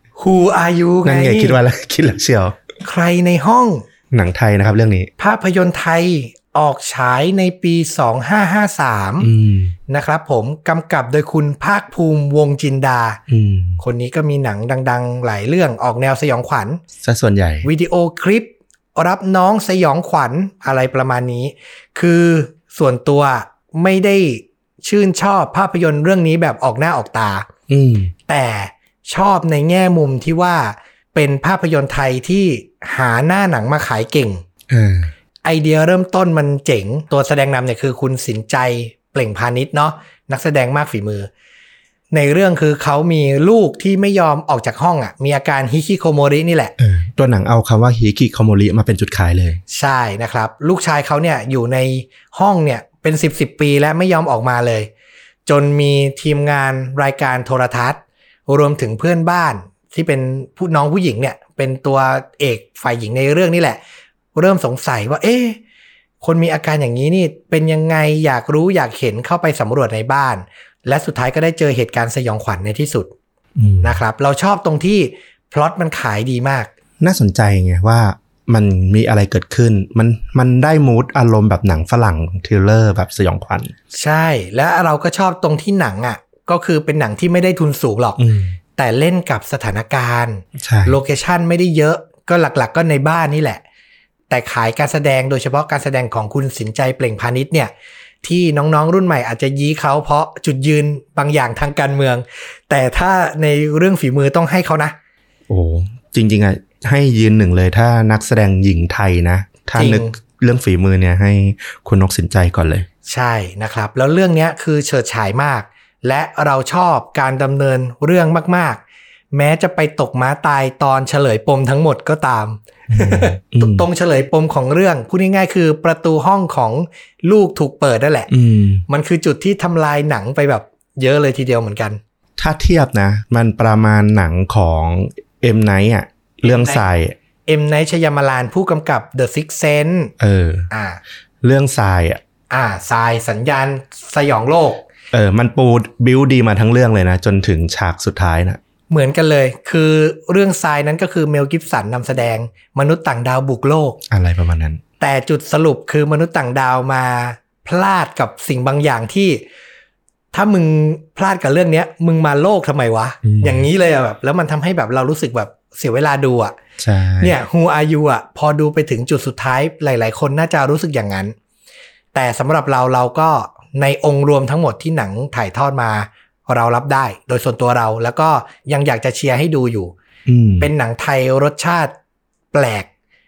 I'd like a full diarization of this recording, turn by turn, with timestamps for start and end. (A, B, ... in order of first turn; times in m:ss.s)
0:00.2-0:01.6 A
0:01.0-0:02.6 B
0:02.8-0:03.8 A
0:04.1-0:05.1 B
0:05.2-0:09.3 A
0:09.2-0:09.8 B
0:09.9-0:13.2 A
0:13.3-0:13.8 B
0:13.8-0:16.8 A
0:17.0-0:17.7 B
0:17.6-0:27.5 A
0:27.7-0:28.1 B
0:28.3-0:34.4 A
0:34.7-0:35.1 B
0:35.4-0:41.3 A
0:42.1-0:46.8 A
0:46.8-0:49.6 B
0:49.7-0:54.9 A
0:55.5-1:03.8 A
1:04.4-1:05.6 A
1:06.2-1:13.1 A
1:13.6-1:14.0 B
1:13.8-1:16.7 A
1:17.0-1:23.7 B
1:23.9-1:28.2 A
1:28.2-1:28.6 B
1:28.8-1:33.6 A
1:30.6-1:31.0 B
1:34.3-1:45.0 A
1:45.5-1:52.9 B
1:49.8-1:50.1 A
1:53.1-2:08.3 A
2:02.9-2:03.9 B
2:08.3-2:08.8 B
2:08.9-2:12.0 A
2:12.4-2:17.2 B
2:16.4-2:16.9 A
2:17.5-2:20.1 A
2:20.2-2:20.7 B
2:20.7-2:21.0 A
2:21.4-2:22.2 B
2:22.5-2:24.8 A
2:25.1-2:28.6 B
2:28.9-2:34.0 A
2:34.1-2:34.8 B
2:35.0-2:39.4 A
2:40.3-2:46.6 A
2:43.2-2:43.7 B
2:46.8-2:47.4 B
2:47.2-2:51.4 A
2:52.1-2:59.9 A
3:00.3-3:00.7 B
3:00.6-3:01.9 A
3:02.5-3:02.9 A